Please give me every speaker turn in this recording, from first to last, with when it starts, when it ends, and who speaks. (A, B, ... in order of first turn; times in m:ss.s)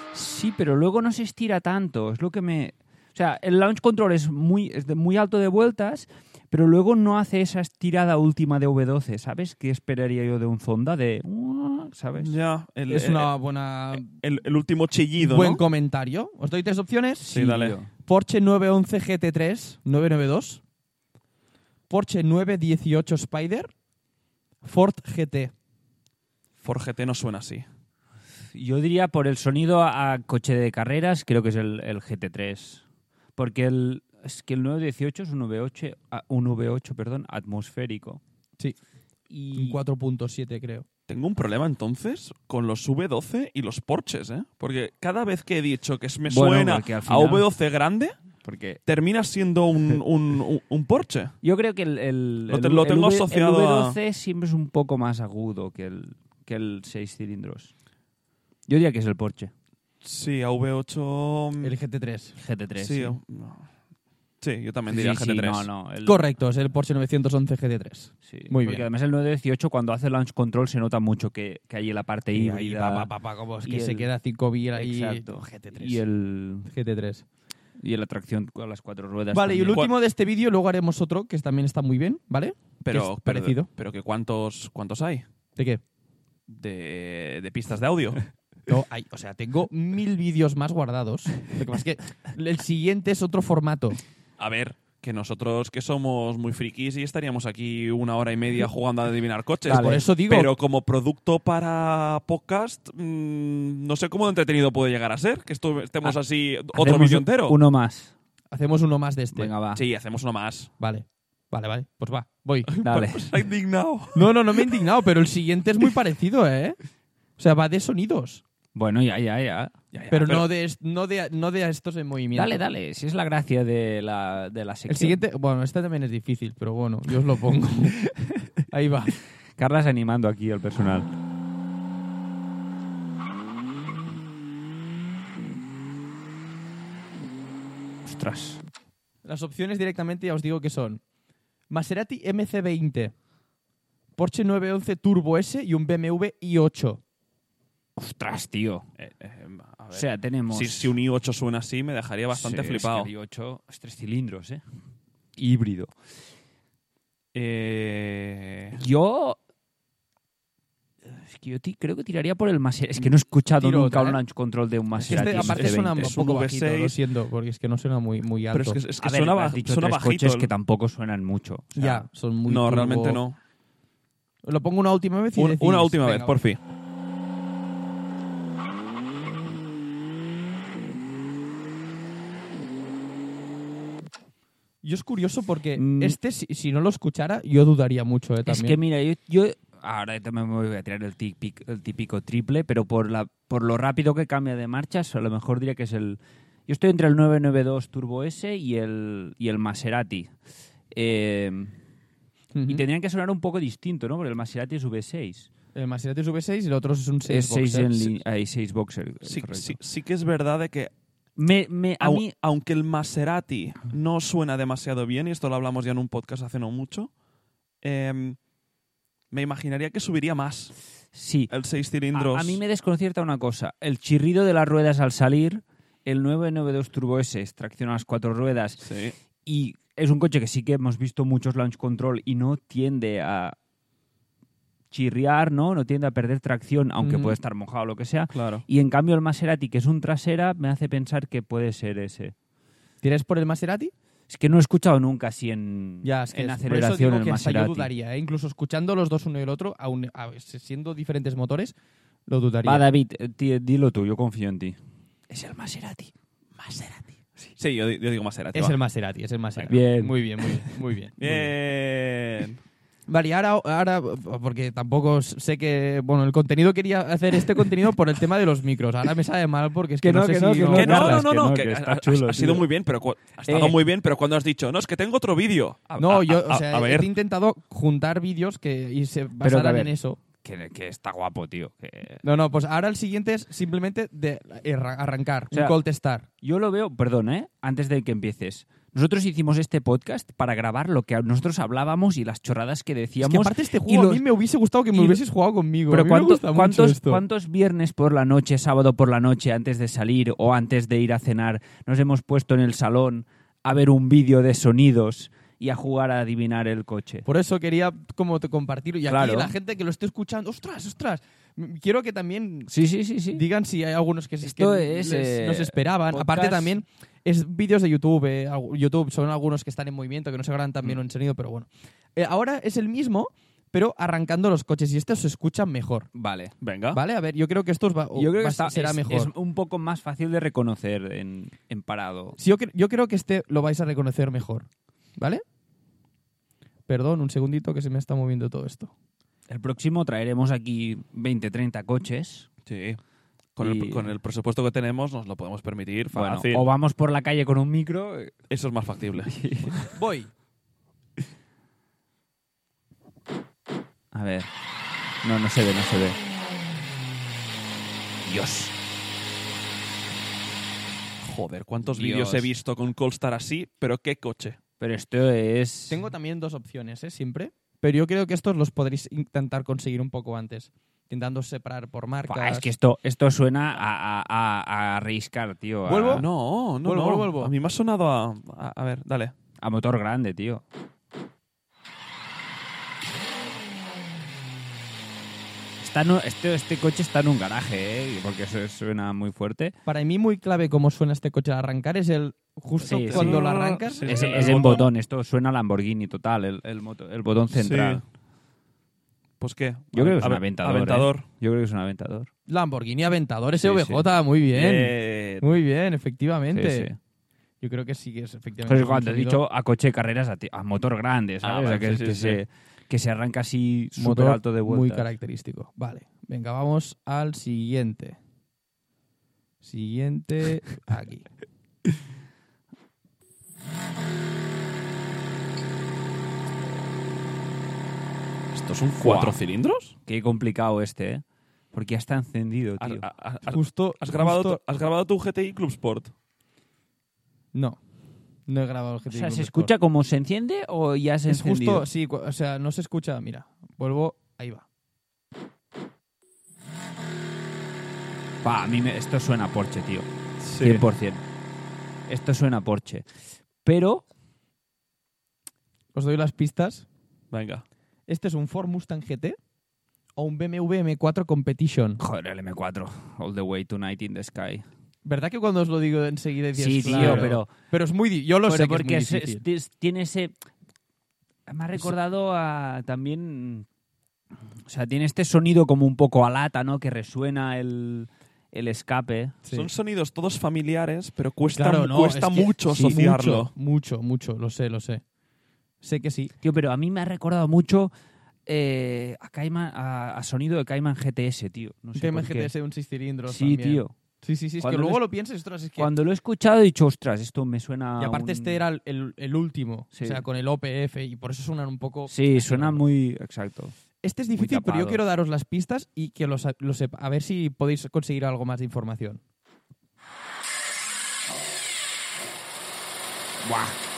0:00.1-0:12.4 A
0:12.2-0:13.3 B
0:12.9-0:14.1 C
0:13.9-0:15.6 B
0:15.2-0:17.2 C
0:17.2-0:17.9 A
0:17.3-0:17.8 B
0:18.0-0:20.6 C
0:21.9-0:23.7 C
0:24.6-0:25.5 C
0:26.6-0:27.6 B
0:28.5-0:32.8 A
0:33.4-0:38.2 A
0:39.3-0:39.8 A
0:39.5-0:40.8 C
0:41.1-0:48.2 B
0:46.3-0:47.5 A
0:48.4-0:48.8 A
0:48.8-0:51.3 B
0:51.4-0:57.7 A
0:52.5-0:54.0 B
0:58.7-0:59.5 A
1:00.0-1:01.7 B
1:01.6-1:02.4 C
1:02.4-1:03.2 A
1:02.8-1:03.7 B
1:04.4-1:05.7 B
1:04.9-1:06.2 A
1:06.0-1:08.8 C
1:08.2-1:13.1 A
1:12.3-1:16.0 C
1:13.6-1:14.1 A
1:14.7-1:16.7 A
1:16.6-1:17.2 C
1:17.8-1:19.8 A
1:19.3-1:23.7 C
1:22.8-1:25.2 B
1:25.6-1:25.8 C
1:26.5-1:28.2 B
1:28.7-1:34.0 C
1:34.4-1:47.6 B
1:39.7-1:40.5 C
1:39.7-1:40.0 A
1:46.7-1:48.1 A
1:48.5-1:49.5 C
1:49.3-1:49.8 A
1:49.7-1:50.7 B
1:50.8-1:52.7 C
1:52.6-1:54.3 B
1:52.8-1:53.3 A
1:54.1-1:56.8 C
1:57.4-1:58.4 C
1:58.7-1:59.7 A
1:59.9-2:00.5 B
2:00.1-2:02.6 C
2:02.3-2:05.2 A
2:04.9-2:08.0 C
2:08.7-2:09.2 C
2:09.6-2:11.1 A
2:18.0-2:18.6 A
2:19.2-2:21.0 C
2:21.7-2:23.1 C
2:24.2-2:27.0 C
2:28.0-2:28.8 A
2:29.0-2:33.1 B
2:29.9-2:30.9 A
2:32.3-2:34.6 A
2:35.4-2:35.9 A
2:37.3-2:38.8 B
2:38.8-2:39.4 A
2:41.0-2:46.2 A
2:43.6-2:44.2 C
2:45.0-2:46.9 B
2:45.0-2:48.8 C
2:48.5-2:50.5 B
2:49.0-2:52.0 A
2:51.7-2:53.2 C
2:52.4-2:53.4 B
2:54.4-2:56.4 C
2:55.4-2:56.6 B
3:04.8-3:08.8 C
3:05.8-3:06.2 A
3:08.4-3:20.3 A
3:20.9-3:21.7 A
3:22.5-3:22.8 C
3:22.6-3:25.5 A
3:25.7-3:28.1 C
3:27.3-3:29.8 A
3:29.2-3:30.9 B
3:31.4-3:32.3 A
3:32.0-3:37.1 B
3:37.8-3:38.4 B
3:39.3-3:40.7 B
3:41.1-3:41.5 A
3:41.5-3:42.6 B
3:42.1-3:48.8 A
3:48.8-3:49.1 B
3:49.4-3:53.6 A
3:54.9-4:02.3 A
3:57.0-3:57.4 C
3:58.3-3:58.6 B
4:03.0-4:03.9 C
4:04.3-4:07.9 A
4:06.0-4:11.7 C
4:12.3-4:12.8 C
4:12.6-4:14.8 A
4:15.3-4:16.1 A
4:16.6-4:17.2 C
4:17.6-4:18.8 B
4:18.5-4:21.4 C
4:19.6-4:20.7 A
4:21.2-4:22.6 B
4:23.1-4:31.2 C
4:30.0-4:32.6 A
4:30.7-4:37.1 B
4:36.0-4:40.2 C
4:39.4-4:42.2 A
4:42.2-4:46.3 C
4:45.5-4:45.8 A
4:46.4-4:54.2 A
4:53.2-4:57.2 C
4:54.9-4:55.2 A
4:55.9-5:07.3 A
5:07.2-5:12.7 C
5:09.1-5:09.5 A
5:12.7-5:13.4 A
5:13.3-5:26.1 C
5:14.4-5:16.7 A
5:26.1-5:26.5 A
5:26.6-5:27.0 B
5:26.9-5:29.3 C
5:28.1-5:32.4 A
5:32.4-5:35.4 C
5:36.9-5:38.9 C
5:39.5-5:42.5 A
5:42.6-5:43.0 B
5:43.6-5:46.7 B
5:43.6-5:44.1 A
5:46.1-5:48.4 A
5:48.5-5:49.3 B
5:49.2-5:49.9 A
5:49.9-5:50.3 C
5:54.1-5:54.5 A
5:55.2-5:56.2 A
5:58.2-5:58.7 A
6:01.2-6:04.6 B
6:01.8-6:02.5 A
6:04.8-6:06.0 A
6:05.9-6:12.7 C
6:12.3-6:16.2 A
6:15.8-6:16.3 C
6:16.1-6:19.3 B
6:16.8-6:17.5 C
6:19.6-6:20.6 A
6:25.8-6:29.7 A
6:29.8-6:34.4 C
6:32.8-6:33.5 A
6:33.1-6:34.9 B
6:34.0-6:38.0 A
6:37.5-6:38.0 B
6:39.4-6:41.2 B
6:39.9-6:42.3 A
6:42.5-6:46.9 C
6:43.6-6:44.0 A
6:44.5-6:45.5 B
6:46.5-6:47.0 A
6:47.6-6:49.4 C
6:48.6-6:55.1 A
6:51.4-6:52.4 B
6:54.0-6:58.2 C
6:59.6-7:01.2 C
7:08.5-7:09.9 B
7:09.0-7:09.4 A
7:10.0-7:13.0 A
7:12.8-7:16.1 B
7:13.5-7:14.6 C
7:17.5-7:17.8 C
7:18.5-7:19.7 C
7:19.1-7:21.8 A
7:21.3-7:24.6 C
7:28.4-7:30.1 A
7:30.4-7:30.9 B
7:30.6-7:31.2 A
7:32.1-7:33.1 A
7:33.6-7:34.0 A
7:35.9-7:36.9 C
7:37.3-7:37.6 B
7:38.1-7:39.4 C
7:40.2-7:42.0 C
7:42.0-7:44.6 A
7:45.0-7:49.4 C
7:46.6-7:47.5 A
7:46.9-7:47.3 B
7:48.5-7:50.3 A
7:51.5-7:53.6 A
7:54.7-7:59.4 A
7:59.5-8:03.5 B
8:01.5-8:05.0 C
8:05.8-8:06.3 C
8:06.4-8:07.9 A
8:08.5-8:12.5 A
8:11.9-8:15.9 C
8:13.3-8:13.9 A
8:14.6-8:15.0 A
8:15.8-8:18.6 A
8:18.0-8:22.8 C
8:19.9-8:20.2 A
8:22.1-8:23.8 A
8:24.0-8:29.2 C
8:24.4-8:25.0 A
8:33.4-8:33.8 A